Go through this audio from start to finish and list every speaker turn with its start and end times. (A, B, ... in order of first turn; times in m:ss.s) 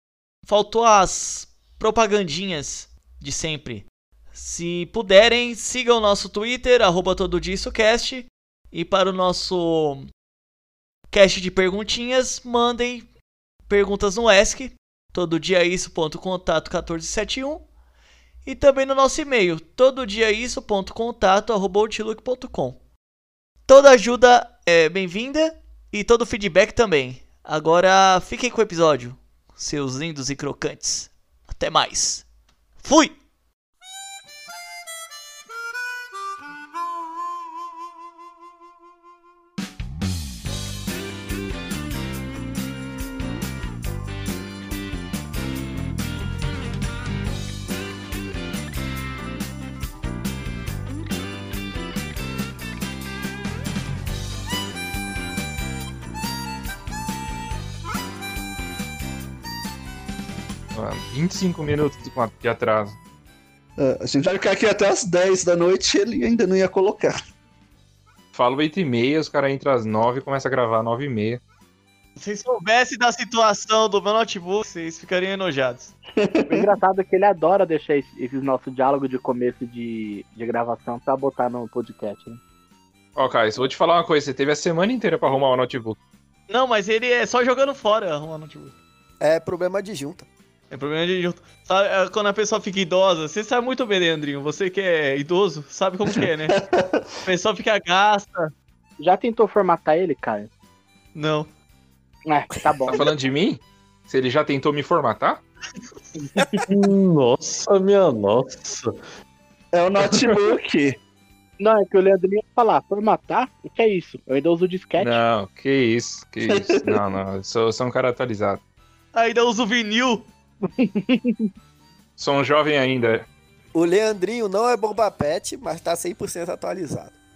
0:00.5-0:10.1 A
0:11.1-0:13.1 A
0:13.7-0:17.6 A
0:18.4-0:22.8 A
0:23.7-0:32.2 A
0:32.8-0:33.2 A
1:00.7-1:03.0 B
1:03.8-1:07.2 C
1:08.3-1:11.4 B
1:12.2-1:15.9 A
1:16.2-1:16.8 C
1:16.5-1:22.4 D
1:23.2-1:26.0 B
1:26.5-1:28.8 A
1:29.2-1:30.3 E
1:30.7-1:36.6 A
1:36.1-1:37.1 C
1:37.2-1:38.5 A
1:39.0-1:40.5 D
1:41.2-1:41.5 A
1:42.3-1:43.0 D
1:42.9-1:45.4 B
1:46.2-1:46.6 D
1:46.7-1:48.9 F
1:49.7-1:51.0 C
1:50.0-1:50.3 B
1:51.6-1:55.2 D
1:55.0-1:58.6 B
1:56.5-1:57.1 C
1:59.1-2:00.3 A
2:00.8-2:01.5 D
2:02.2-2:03.3 B
2:03.8-2:07.1 E